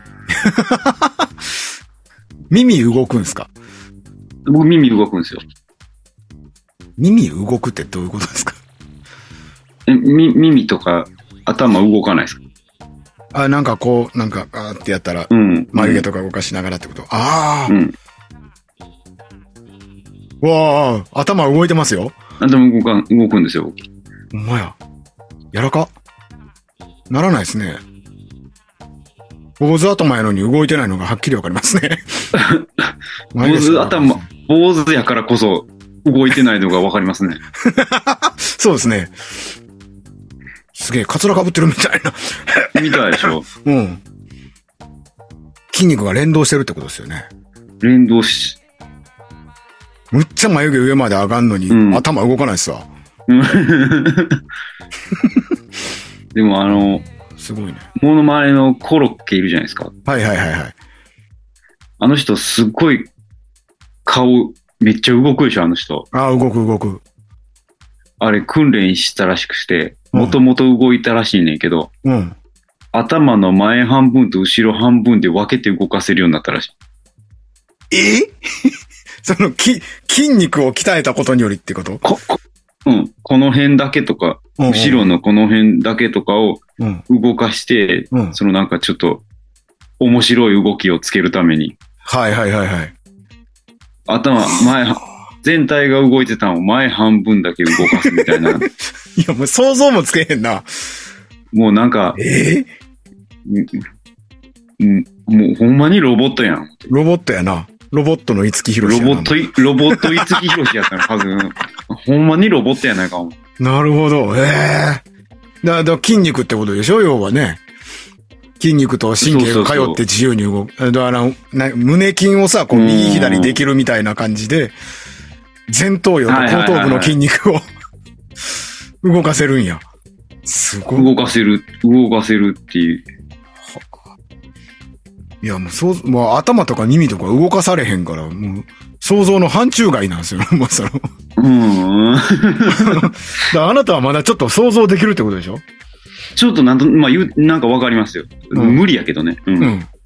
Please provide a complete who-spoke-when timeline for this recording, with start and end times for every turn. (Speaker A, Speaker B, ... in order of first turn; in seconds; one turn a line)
Speaker A: 0.3-1.3
Speaker A: 2.5-3.5
Speaker B: 4.5-5.4
Speaker A: 7.0-8.6
Speaker B: 9.9-12.4
Speaker A: 13.3-17.8
Speaker B: 15.3-16.1
Speaker B: 17.7-17.9
Speaker A: 20.4-22.1
Speaker B: 22.4-23.9
Speaker A: 24.3-24.8
Speaker A: 25.5-25.9
Speaker A: 27.1-27.8
Speaker A: 29.6-32.0
Speaker B: 32.3-37.4
Speaker A: 33.3-34.2
Speaker A: 37.6-39.1
Speaker A: 40.7-44.0
Speaker B: 42.8-43.5
Speaker A: 45.7-47.3
Speaker B: 47.8-48.6
Speaker A: 50.1-52.9
Speaker B: 51.7-52.0
Speaker B: 53.3-54.4
Speaker A: 55.1-55.5
Speaker B: 56.3-57.0
Speaker A: 56.7-57.8
Speaker B: 58.0-59.9
Speaker A: 60.0-60.8
Speaker B: 62.0-63.1
Speaker B: 64.0-66.0
Speaker A: 66.1-67.0
Speaker B: 68.2-71.9
Speaker A: 70.1-70.4
Speaker A: 72.0-72.3
Speaker B: 72.9-76.7
Speaker A: 77.9-82.0
Speaker B: 82.0-89.2
Speaker A: 84.6-85.1
Speaker B: 90.0-91.8
Speaker A: 92.0-92.9
Speaker B: 94.1-98.7
Speaker A: 97.7-100.7
Speaker B: 101.5-102.2
Speaker A: 102.2-102.7
Speaker B: 103.5-103.8
Speaker B: 104.8-106.9
Speaker A: 106.9-110.7
Speaker B: 108.8-113.3
Speaker A: 113.6-115.0
Speaker A: 115.6-117.6
Speaker A: 118.6-124.8
Speaker B: 119.2-120.0
Speaker B: 122.7-123.6
Speaker A: 125.7-127.6
Speaker B: 126.3-127.2
Speaker A: 129.0-129.8
Speaker A: 130.4-131.1
Speaker B: 130.9-133.0
Speaker A: 135.4-141.0
Speaker B: 141.4-143.4
Speaker A: 142.7-145.6
Speaker B: 146.4-149.7
Speaker A: 148.5-148.8
Speaker A: 149.6-149.9